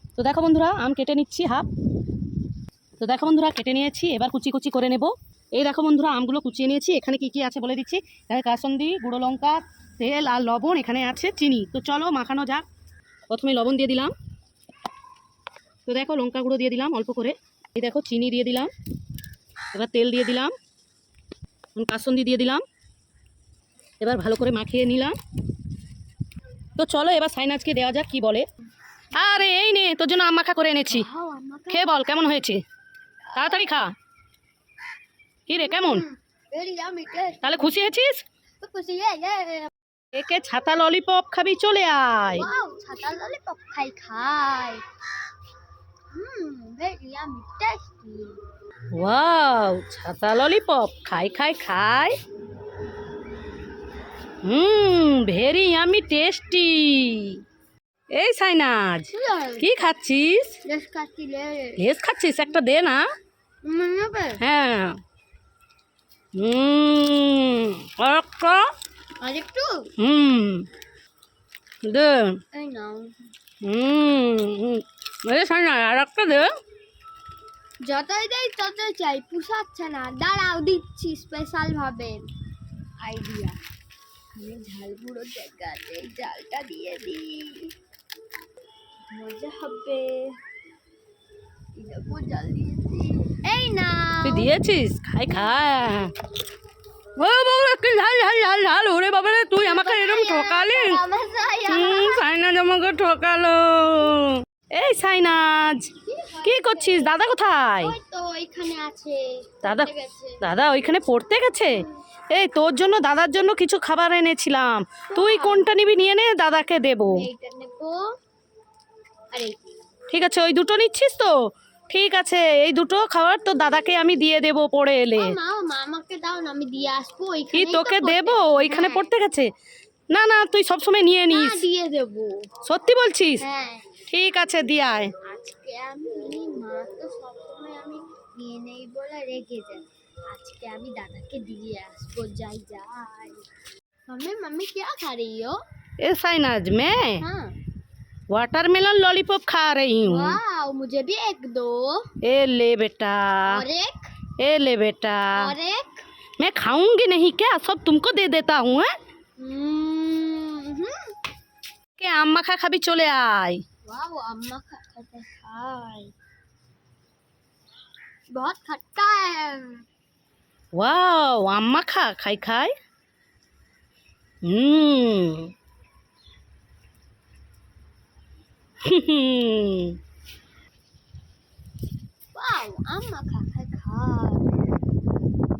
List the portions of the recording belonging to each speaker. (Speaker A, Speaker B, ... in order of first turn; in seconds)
Speaker A: 0.1-1.7, 3.0-12.7, 13.3-14.1, 15.9-18.7, 19.7-20.5, 21.7-22.6, 24.0-25.2, 26.8-28.5, 29.1-31.1, 31.7-32.6, 33.3-33.9, 35.5-36.0, 37.4-38.2, 40.1-42.5, 48.9-52.2, 54.4-57.4, 58.1-60.6, 61.8-63.0, 64.4-65.0, 66.3-68.7, 70.0-70.7, 71.8-72.4, 73.6-76.5, 94.2-96.1, 97.2-101.0, 101.7-105.9, 106.4-107.9, 109.6-117.2, 120.1-125.4, 127.5-129.5, 130.1-131.6, 132.6-133.4, 134.1-135.1, 146.0-147.2, 148.3-150.4, 152.2-153.6, 154.4-155.5, 156.4-158.9, 162.0-163.6, 170.7-172.7, 174.4-175.5, 178.8-180.0
Speaker B: 30.9-31.9, 33.3-33.8, 35.6-37.7, 38.6-39.7, 42.3-44.8, 46.1-48.4, 59.1-59.7, 60.6-61.8, 63.6-64.4, 69.2-69.9, 72.5-73.2, 77.8-82.2, 83.0-83.6, 84.3-87.7, 89.1-90.4, 91.8-94.5, 99.5-102.2, 106.0-107.2, 107.8-110.4, 115.1-115.7, 117.1-118.1, 119.3-119.9, 125.2-129.1, 131.3-132.5, 133.4-133.9, 135.2-143.4, 144.1-145.6, 147.2-147.6, 150.1-152.1, 153.4-154.1, 155.3-156.1, 159.4-161.2, 163.8-166.1, 168.3-169.8, 182.3-184.5